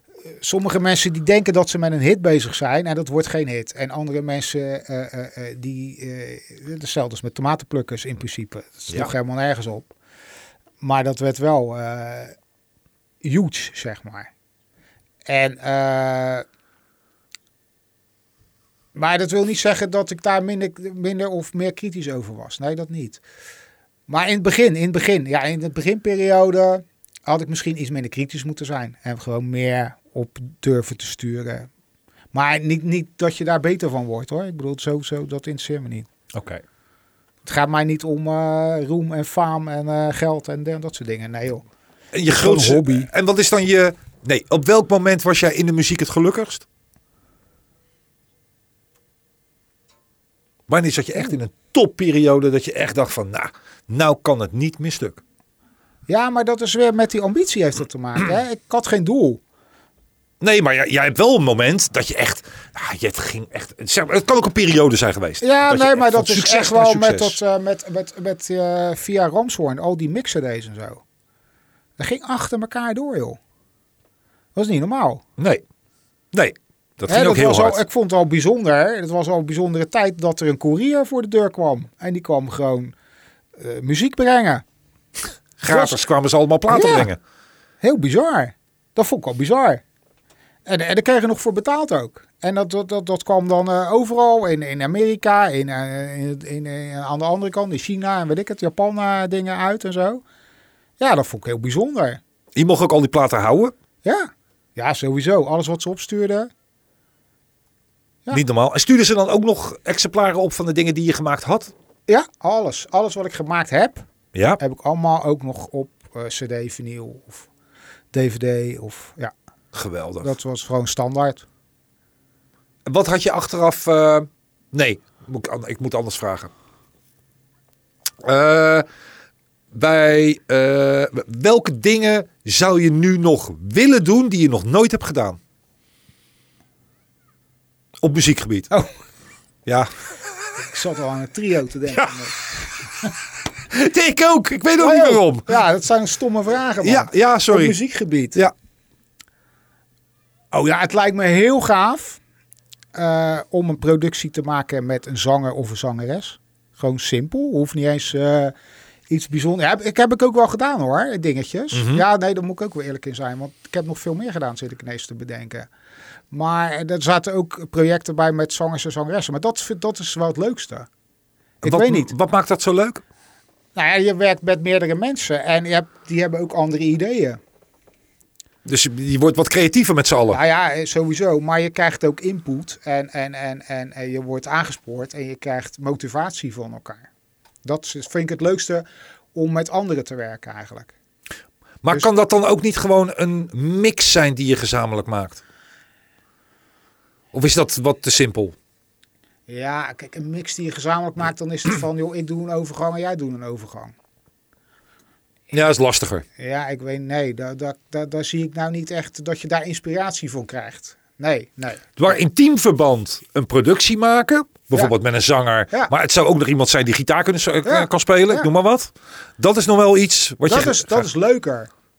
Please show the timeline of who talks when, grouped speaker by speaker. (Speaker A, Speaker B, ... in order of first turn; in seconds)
Speaker A: 0.3-9.9, 10.8-12.3, 13.2-14.3, 15.2-16.4, 18.9-23.2, 24.1-31.7, 32.3-36.1, 37.4-41.6, 42.3-43.1, 56.1-59.4, 65.4-71.0, 72.0-73.4, 74.5-75.2, 77.1-82.9, 83.6-84.6, 85.7-86.0, 86.7-87.1, 87.8-89.8, 90.7-100.2, 101.0-102.2, 104.0-106.5, 112.1-114.0, 114.6-117.5, 118.1-119.3, 120.2-121.4, 140.6-142.4, 144.8-148.4, 150.5-152.2, 152.9-158.5, 159.1-165.7, 166.3-170.9, 171.6-172.1, 173.7-177.4, 180.3-187.1, 187.6-190.9, 199.5-203.9, 206.4-212.1, 217.6-218.5, 220.4-221.7
Speaker B: 36.3-36.6, 42.1-46.6, 50.7-55.2, 60.4-67.4, 75.4-75.6, 76.3-77.8, 85.6-87.2, 102.5-103.7, 108.3-111.7, 114.3-114.6, 119.7-120.3, 122.8-126.5, 128.2-128.8, 129.7-135.4, 138.0-138.7, 143.7-145.5, 146.8-147.8, 161.7-162.0, 171.6-173.0, 178.7-180.4, 191.8-195.4, 197.3-198.5, 205.5-206.2, 212.0-221.1